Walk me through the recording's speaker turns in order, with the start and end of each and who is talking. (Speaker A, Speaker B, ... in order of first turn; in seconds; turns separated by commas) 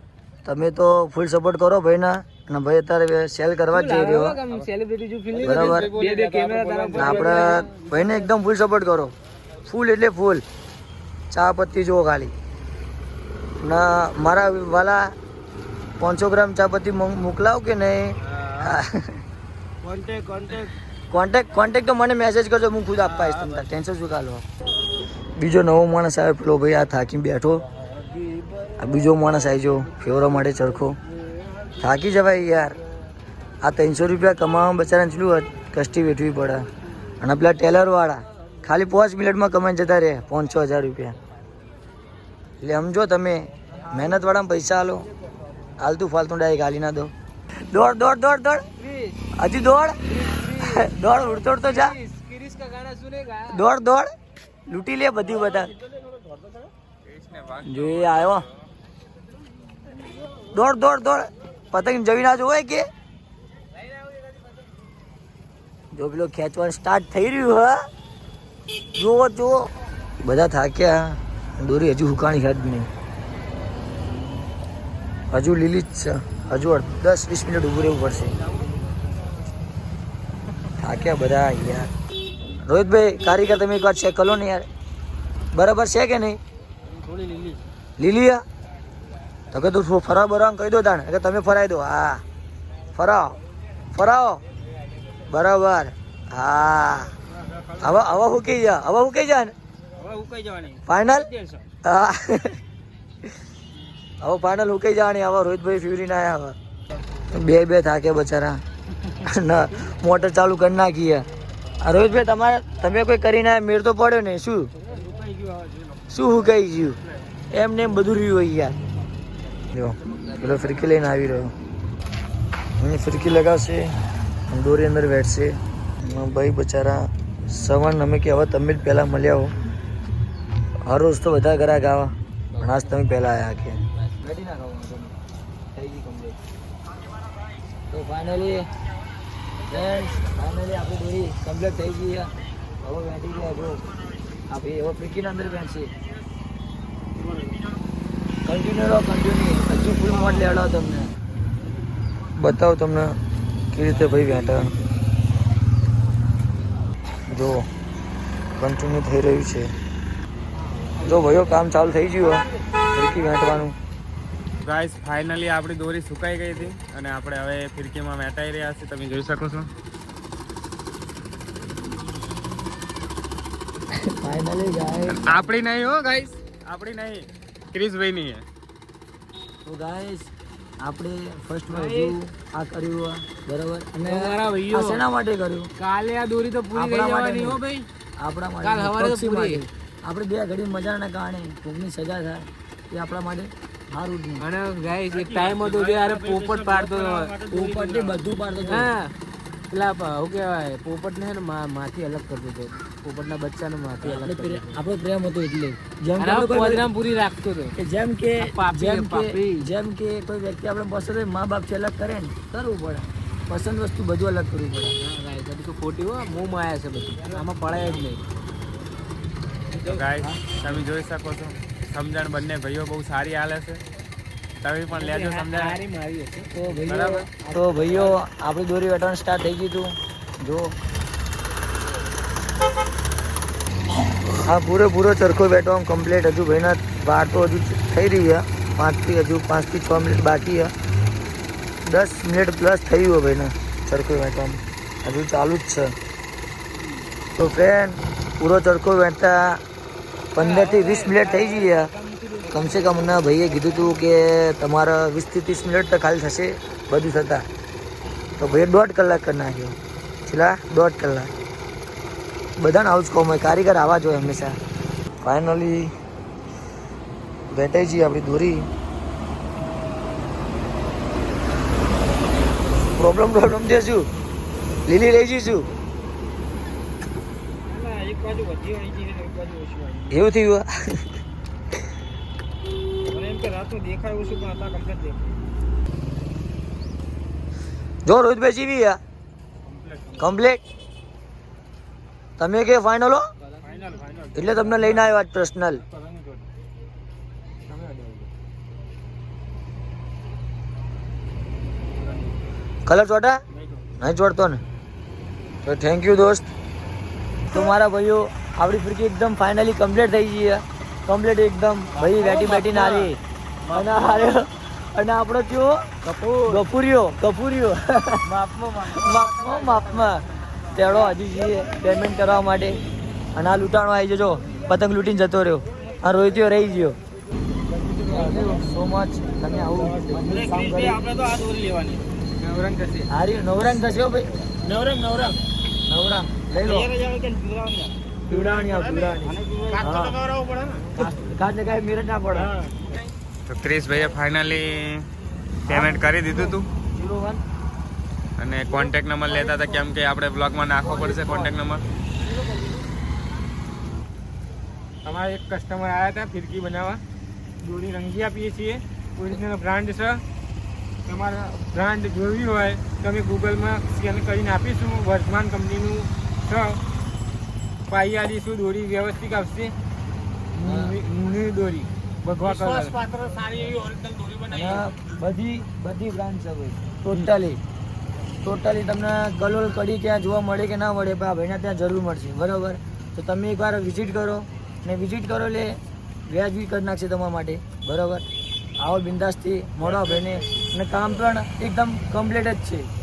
Speaker A: 0.4-4.4, Speaker B: 3.7-8.3, Speaker C: 5.3-7.6, Speaker A: 5.4-5.9, Speaker A: 7.0-9.1, Speaker A: 9.6-10.4, Speaker A: 11.3-12.3, Speaker A: 13.6-15.1, Speaker A: 16.0-19.2, Speaker C: 18.3-18.8, Speaker C: 19.8-20.7, Speaker A: 21.1-24.4, Speaker C: 23.1-23.6, Speaker A: 25.4-27.6, Speaker B: 28.0-28.7, Speaker A: 28.8-31.0, Speaker A: 31.8-32.8, Speaker A: 33.6-36.7, Speaker A: 37.2-41.1, Speaker A: 42.6-45.1, Speaker A: 45.8-47.1, Speaker A: 47.7-48.6, Speaker B: 48.8-49.2, Speaker A: 49.4-50.0, Speaker B: 50.0-53.6, Speaker A: 50.6-52.0, Speaker A: 53.5-54.1, Speaker A: 54.7-55.7, Speaker C: 56.1-56.5, Speaker D: 57.0-58.5, Speaker A: 57.6-58.5, Speaker A: 60.5-62.9, Speaker A: 65.9-67.8, Speaker A: 68.9-69.7, Speaker A: 70.2-72.9, Speaker A: 75.3-78.4, Speaker A: 80.8-81.9, Speaker A: 82.6-84.7, Speaker A: 85.5-86.4, Speaker C: 87.0-87.6, Speaker A: 88.0-88.4, Speaker A: 89.5-92.2, Speaker A: 93.0-93.4, Speaker A: 93.9-94.4, Speaker A: 95.3-97.1, Speaker C: 97.3-98.3, Speaker A: 97.8-99.5, Speaker C: 100.0-101.6, Speaker A: 100.9-101.3, Speaker A: 101.8-102.6, Speaker A: 104.2-106.5, Speaker A: 107.3-108.6, Speaker A: 109.2-111.2, Speaker A: 111.8-114.7, Speaker C: 114.8-116.0, Speaker A: 116.1-117.0, Speaker A: 117.5-118.8, Speaker A: 119.7-121.5, Speaker B: 119.9-121.2, Speaker A: 122.8-124.0, Speaker A: 124.5-129.5, Speaker A: 130.9-135.1, Speaker B: 132.5-133.0, Speaker A: 135.7-136.4, Speaker A: 137.9-138.7, Speaker A: 139.7-143.8, Speaker A: 144.5-145.9, Speaker A: 148.4-151.1, Speaker A: 152.4-153.1, Speaker A: 153.7-154.7, Speaker A: 157.3-157.6, Speaker A: 158.6-159.7, Speaker C: 161.0-161.5, Speaker A: 161.0-163.8, Speaker C: 162.2-162.4, Speaker C: 163.2-163.6, Speaker D: 164.6-169.7, Speaker A: 173.9-175.5, Speaker D: 175.1-178.4, Speaker A: 179.7-180.3, Speaker A: 180.8-185.7, Speaker B: 181.7-182.2, Speaker B: 184.0-185.0, Speaker B: 185.8-187.9, Speaker A: 186.7-187.6, Speaker A: 188.2-194.4, Speaker B: 188.6-189.7, Speaker B: 194.4-197.3, Speaker C: 195.1-198.2, Speaker A: 197.5-198.9, Speaker B: 198.6-199.1, Speaker B: 199.7-204.8, Speaker A: 204.0-206.8, Speaker B: 206.2-207.8, Speaker A: 207.8-214.9, Speaker B: 208.4-209.7, Speaker B: 215.0-218.2, Speaker B: 219.7-220.2, Speaker D: 219.8-223.8, Speaker D: 224.6-225.8, Speaker B: 224.9-228.2, Speaker A: 226.5-230.7, Speaker D: 226.9-227.3, Speaker A: 234.3-240.7, Speaker A: 241.8-245.9, Speaker A: 247.3-249.6, Speaker A: 250.3-251.9, Speaker B: 250.3-253.6, Speaker A: 252.5-257.4, Speaker A: 258.4-261.3, Speaker A: 262.6-264.6, Speaker A: 265.2-265.9, Speaker A: 267.5-268.7, Speaker A: 272.9-274.1, Speaker A: 274.9-275.7, Speaker C: 277.6-280.2, Speaker A: 280.1-281.1, Speaker C: 283.1-285.2, Speaker A: 288.1-289.0, Speaker C: 289.6-290.4, Speaker A: 290.2-290.6, Speaker A: 292.4-293.2, Speaker B: 293.4-294.0, Speaker C: 293.6-295.2, Speaker A: 294.3-295.8, Speaker C: 295.8-296.4, Speaker C: 297.7-298.3, Speaker C: 301.9-302.4, Speaker A: 302.9-303.4, Speaker C: 303.5-303.9, Speaker A: 304.0-304.6, Speaker A: 305.6-306.5, Speaker A: 307.5-313.2, Speaker C: 311.9-314.3, Speaker A: 313.7-318.2, Speaker C: 316.1-316.6, Speaker C: 318.2-320.1, Speaker A: 318.9-322.8, Speaker A: 323.3-327.0, Speaker C: 327.7-328.6, Speaker A: 328.0-331.0, Speaker C: 329.7-333.1, Speaker A: 333.1-334.3, Speaker C: 334.6-335.4, Speaker A: 335.9-336.9, Speaker C: 336.6-341.1, Speaker A: 338.3-340.2, Speaker A: 341.0-342.5, Speaker C: 342.3-342.9, Speaker D: 343.5-345.1, Speaker D: 345.6-346.7, Speaker A: 345.7-347.4, Speaker D: 348.4-351.8, Speaker A: 350.8-351.5, Speaker C: 355.0-357.0, Speaker C: 357.6-360.2, Speaker C: 361.1-366.8, Speaker C: 367.9-369.7, Speaker D: 368.2-368.7, Speaker C: 370.6-374.8, Speaker A: 370.6-371.0, Speaker A: 374.5-377.6, Speaker A: 378.4-385.7, Speaker A: 386.3-388.2, Speaker A: 388.8-392.9, Speaker C: 389.8-390.5